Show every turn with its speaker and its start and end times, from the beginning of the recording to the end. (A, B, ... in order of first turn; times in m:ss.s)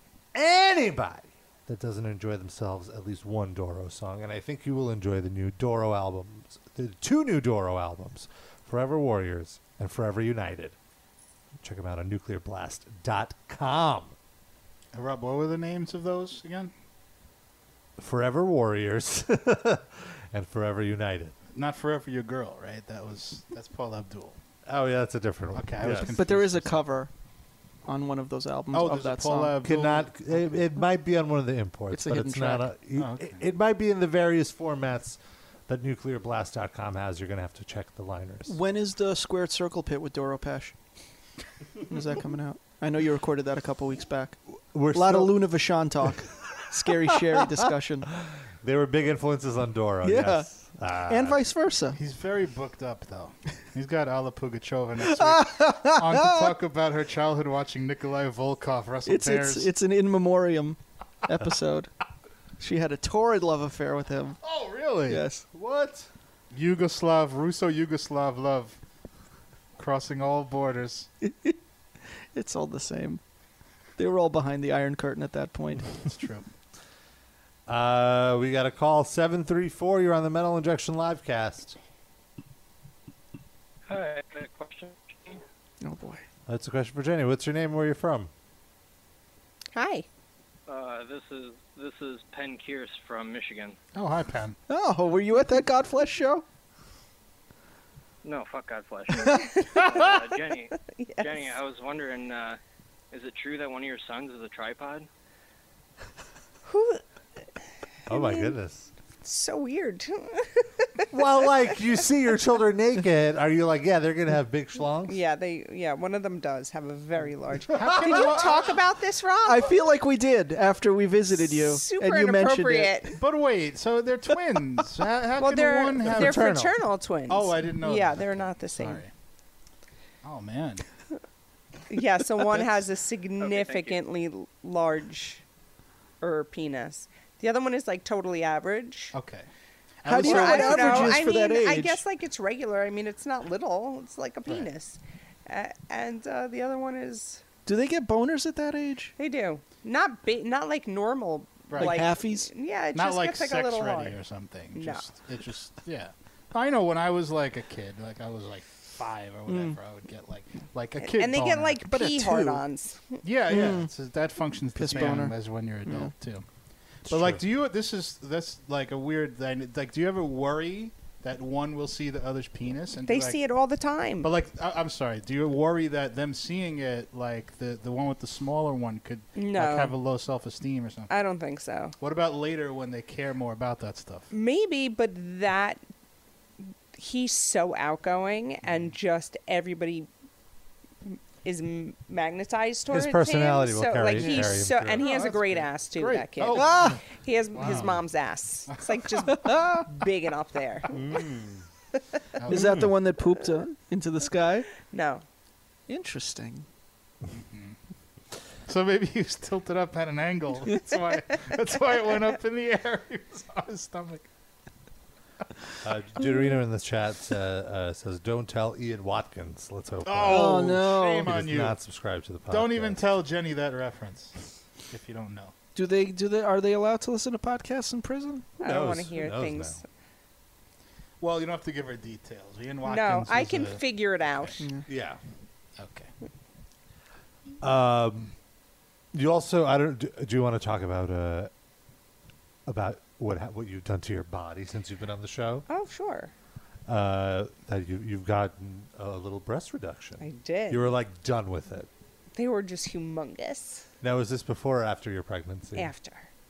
0:00.3-0:10.8 A
0:11.6-0:14.1 A
0:14.9-0:16.7 B
0:18.0-0:21.3 A
0:21.5-0:24.4 B
0:24.6-0:26.2 A
0:25.5-0:26.8 B
0:26.1-0:27.1 C
0:27.8-0:29.6 C
0:28.7-0:30.4 B
0:29.6-0:38.6 A
0:31.9-0:32.7 C
0:33.0-0:33.4 B
0:38.5-0:40.7 C
0:41.8-0:44.4 C
0:44.7-0:45.3 A
0:44.9-0:48.1 C
0:48.2-0:51.4 A
0:50.0-0:50.5 C
0:51.1-0:52.0 C
0:52.0-0:59.7 B
0:55.0-0:56.5 C
0:59.0-1:01.9 C
1:02.6-1:04.4 C
1:04.4-1:05.2 B
1:05.1-1:05.4 C
1:05.5-1:06.1 A
1:06.5-1:08.8 B
1:09.8-1:11.1 B
1:11.2-1:13.2 C
1:14.0-1:16.0 C
1:16.0-1:16.5 B
1:17.7-1:21.8 A
1:23.9-1:25.4 D
1:25.8-1:26.2 C
1:26.5-1:28.3 A
1:29.7-1:30.0 E
1:30.7-1:33.8 D
1:33.9-1:34.6 B
1:34.7-1:36.4 C
1:38.2-1:42.6 D
1:41.0-1:41.5 E
1:43.1-1:45.1 D
1:46.6-1:47.0 E
1:48.1-1:48.9 A
1:48.1-1:48.5 E
1:49.2-1:51.0 E
1:51.1-1:55.2 A
1:55.1-1:59.8 E
1:57.7-1:58.7 B
1:59.4-2:03.2 C
2:01.3-2:03.1 E
2:03.2-2:06.5 B
2:05.4-2:09.0 E
2:06.0-2:06.8 A
2:07.3-2:09.1 B
2:10.2-2:10.8 B
2:11.9-2:15.4 E
2:13.4-2:14.0 D
2:16.2-2:19.1 E
2:19.1-2:19.5 B
2:20.0-2:21.2 B
2:20.0-2:22.0 C
2:20.2-2:27.4 E
2:27.6-2:29.1 C
2:29.2-2:34.2 E
2:31.7-2:32.0 B
2:31.8-2:32.5 C
2:32.9-2:41.8 B
2:34.7-2:35.1 E
2:39.5-2:39.8 C
2:41.0-2:43.2 E
2:41.8-2:42.6 C
2:43.2-2:46.4 B
2:43.5-2:43.9 C
2:44.8-2:46.1 C
2:47.1-2:53.4 B
2:47.1-2:47.4 A
2:53.0-2:54.3 E
2:54.2-3:01.1 B
2:59.3-2:59.9 E
3:01.1-3:02.0 E
3:02.0-3:04.3 B
3:04.3-3:05.8 E
3:06.9-3:10.1 E
3:11.0-3:20.9 E
3:12.9-3:15.1 A
3:15.0-3:17.0 B
3:16.5-3:17.0 C
3:17.5-3:18.0 B
3:18.8-3:19.3 B
3:19.3-3:19.8 C
3:20.9-3:21.2 B
3:21.0-3:21.3 A
3:22.4-3:22.9 B
3:22.5-3:24.7 C
3:24.8-3:25.2 E
3:25.9-3:26.6 C
3:27.3-3:27.8 B
3:28.6-3:34.3 B
3:35.8-3:43.0 A
3:40.0-3:41.8 B
3:40.3-3:41.3 C
3:42.5-3:44.4 B
3:44.9-3:45.5 B
3:45.7-3:48.5 C
3:48.6-3:49.8 A
3:48.6-3:49.8 E
3:51.2-3:53.8 B
3:52.8-3:54.6 E
3:54.6-3:54.8 C
3:54.9-3:55.2 A
3:55.8-3:56.1 B
3:57.6-3:58.3 A
3:59.1-4:01.5 A
4:02.6-4:05.6 A
4:05.7-4:06.3 E
4:06.9-4:11.9 A
4:10.2-4:10.9 E
4:12.3-4:13.9 E
4:14.0-4:15.9 A
4:15.7-4:16.3 E